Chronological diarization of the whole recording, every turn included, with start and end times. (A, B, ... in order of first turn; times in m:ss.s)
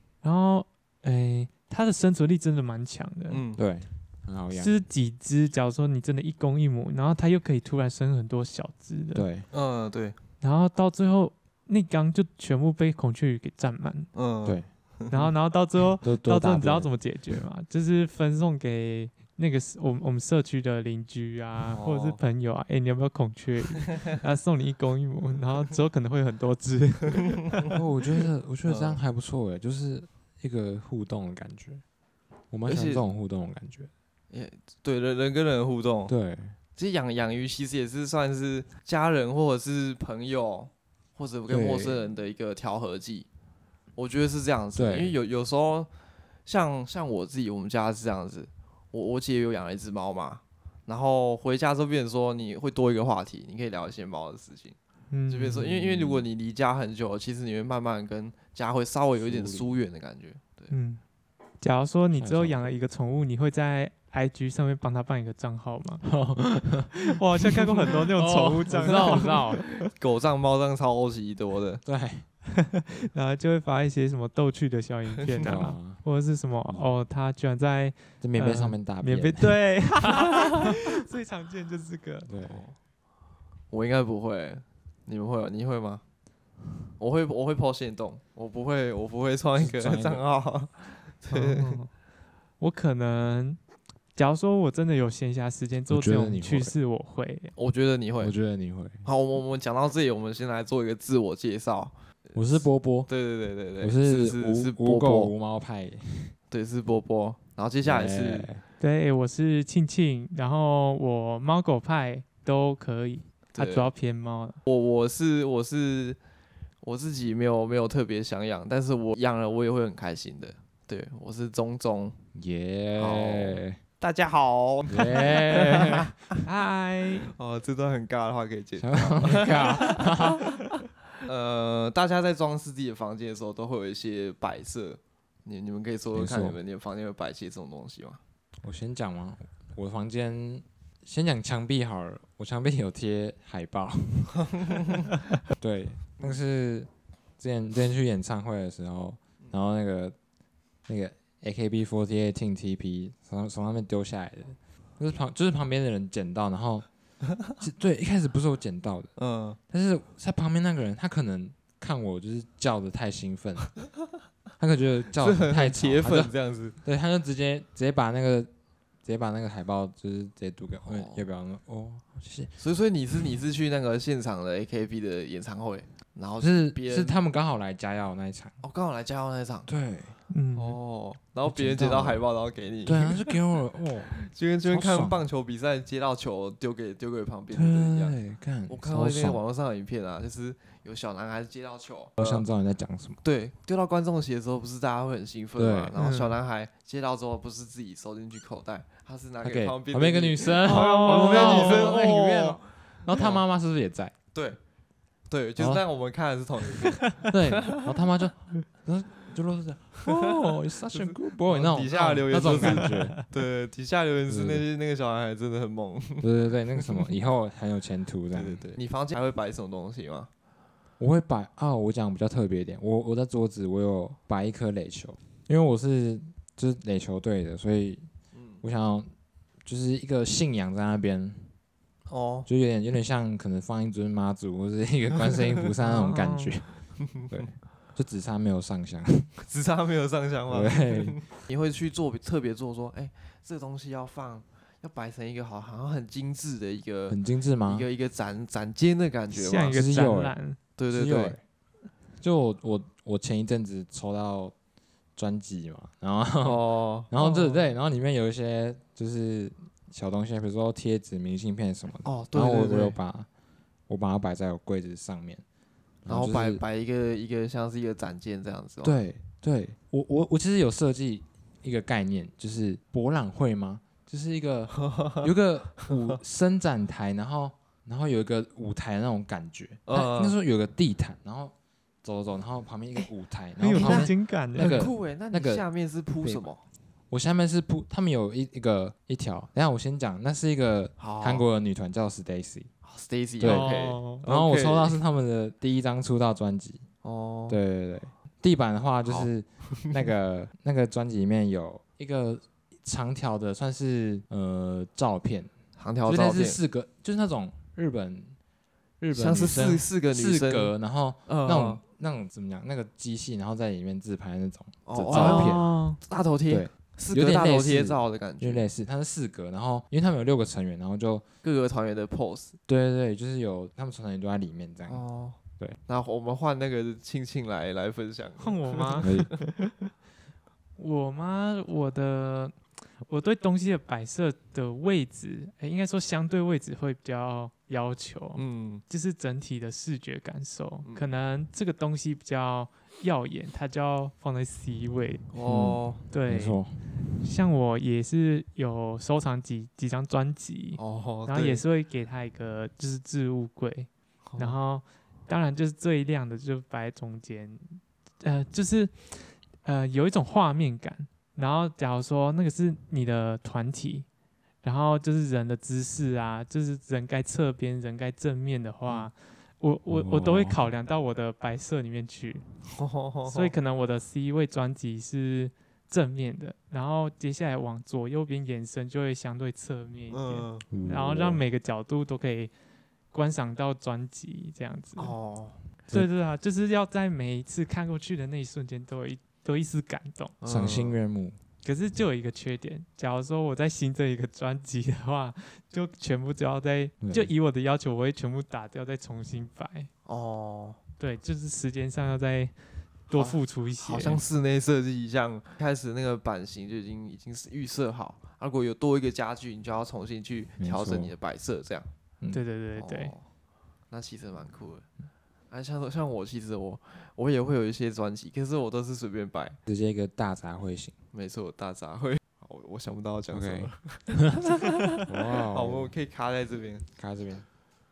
0:00.2-0:03.4 A
0:03.3-0:03.6 B
0:03.6-0:04.7 C
0:04.5-0:09.3 A
0:09.1-0:09.5 C
0:09.5-0:10.2 B
0:10.4-0:14.1 A
0:14.1-0:15.3 B
0:15.1-0:27.7 A
0:16.0-0:16.9 C
0:21.7-0:22.2 B
0:27.7-0:31.8 C
0:28.6-0:29.0 B
0:32.5-0:33.9 C
0:32.6-0:33.0 B
0:34.3-0:36.1 B
0:36.1-0:36.6 C
0:36.8-0:43.3 B
0:41.5-0:42.0 C
0:44.0-0:45.9 B
0:44.7-0:45.2 C
0:46.4-0:54.8 B
0:55.1-0:55.6 A
0:55.3-1:00.7 B
0:55.5-0:56.3 C
0:59.2-0:59.7 C
1:00.7-1:01.0 A
1:01.6-1:06.0 A
1:02.1-1:02.7 C
1:06.0-1:09.7 C
1:06.9-1:09.6 A
1:08.9-1:11.8 B
1:11.8-1:12.3 C
1:12.6-1:22.3 A
1:15.3-1:15.6 B
1:15.4-1:16.0 C
1:18.2-1:20.2 C
1:22.2-1:22.6 C
1:22.4-1:22.8 B
1:23.7-1:26.0 B
1:27.0-1:31.8 B
1:29.6-1:30.2 C
1:31.3-1:31.9 A
1:32.6-1:33.6 A
1:34.1-1:37.5 A
1:35.9-1:36.7 C
1:37.6-1:38.3 B
1:38.2-1:39.0 C
1:39.0-1:45.3 B
1:42.3-1:43.1 C
1:43.8-1:46.4 C
1:46.5-1:48.5 B
1:47.8-1:48.6 C
1:48.8-1:54.6 A
1:53.5-1:53.9 B
1:54.6-1:56.2 B
1:56.8-2:02.2 B
2:02.3-2:03.8 C
2:02.9-2:06.3 B
2:04.9-2:06.1 C
2:06.4-2:07.3 A
2:07.3-2:10.4 B
2:08.8-2:10.7 C
2:11.2-2:18.2 B
2:16.1-2:16.6 C
2:18.6-2:24.6 C
2:25.6-2:30.1 C
2:30.9-2:36.8 C
2:37.4-2:39.1 C
2:39.2-2:39.6 B
2:39.7-2:43.8 C
2:44.6-2:48.5 C
2:45.2-2:46.8 B
2:49.0-2:52.5 C
2:50.8-2:51.2 B
2:52.6-2:57.2 B
2:56.4-2:58.6 C
2:58.6-2:59.7 B
2:59.7-3:00.2 C
3:00.3-3:00.8 A
3:00.5-3:03.4 B
3:01.4-3:02.2 C
3:02.8-3:05.2 C
3:04.0-3:12.4 B
3:07.5-3:09.4 C
3:12.2-3:13.2 C
3:13.2-3:23.4 B
3:15.6-3:16.0 C
3:16.0-3:16.4 A
3:19.4-3:24.1 C
3:20.6-3:22.1 A
3:24.3-3:24.6 B
3:25.3-3:27.8 B
3:25.6-3:25.8 C
3:27.1-3:33.2 C
3:30.0-3:37.1 B
3:32.6-3:33.2 A
3:34.3-3:34.6 C
3:36.2-3:38.7 C
3:38.3-3:40.3 B
3:41.0-3:48.1 C
3:48.3-3:48.6 B
3:48.6-3:49.1 C
3:49.6-3:51.5 C
3:52.1-3:52.5 B
3:52.4-3:59.3 C
3:55.8-3:56.6 A
3:57.0-3:57.4 B
3:59.4-4:09.8 B
4:00.5-4:01.2 C
4:07.1-4:07.9 C
4:09.3-4:10.6 A
4:09.7-4:10.4 C
4:10.8-4:11.4 B
4:10.9-4:11.4 C
4:12.2-4:14.5 C
4:15.2-4:23.3 C
4:16.4-4:17.1 B
4:17.2-4:17.7 A
4:22.0-4:23.0 B
4:23.9-4:25.4 C
4:26.0-4:26.6 C
4:26.1-4:29.0 B
4:28.8-4:45.6 C
4:34.9-4:35.3 B
4:39.9-4:40.4 B
4:43.6-4:44.8 A
4:43.7-4:46.6 B
4:46.2-4:46.5 C
4:47.1-4:52.7 C
4:51.0-4:51.5 B
4:52.8-4:55.0 B
4:53.4-4:56.8 C
4:53.4-4:54.2 A
4:57.0-4:57.6 B
4:57.5-5:05.5 C
4:59.0-5:00.1 B
5:05.8-5:06.6 B
5:06.0-5:08.4 C
5:09.0-5:15.7 C
5:09.1-5:10.7 B
5:11.2-5:11.8 B
5:14.8-5:18.6 B
5:15.1-5:16.0 A
5:16.5-5:21.2 C
5:21.4-5:22.5 B
5:22.7-5:25.0 C
5:24.9-5:29.5 B
5:28.4-5:29.2 A
5:29.0-5:29.3 C
5:30.8-5:45.2 A
5:38.4-5:38.8 B
5:45.3-5:46.0 B
5:45.4-5:46.8 C
5:46.1-5:46.6 A
5:47.1-6:04.0 A
5:50.8-5:51.6 B
5:54.2-5:54.6 B
6:04.6-6:12.4 A
6:09.9-6:10.6 C
6:12.7-6:13.6 B
6:13.2-6:22.5 A
6:20.1-6:20.6 B
6:20.7-6:21.4 C
6:23.1-6:25.2 A
6:25.0-6:25.6 B
6:25.9-6:30.3 A
6:30.4-6:31.0 B
6:30.5-6:31.4 C
6:31.6-6:39.9 A
6:37.0-6:37.3 C
6:40.0-6:40.8 B
6:41.0-6:44.2 A
6:43.1-6:51.9 B
6:50.6-6:51.1 C
6:52.3-6:53.2 A
6:52.8-6:53.2 B
6:53.9-6:54.8 B
6:55.5-6:59.6 B
6:59.6-7:00.9 C
7:01.1-7:04.8 B
7:03.3-7:03.7 C
7:05.1-7:05.9 C
7:05.5-7:06.8 B
7:07.0-7:07.4 C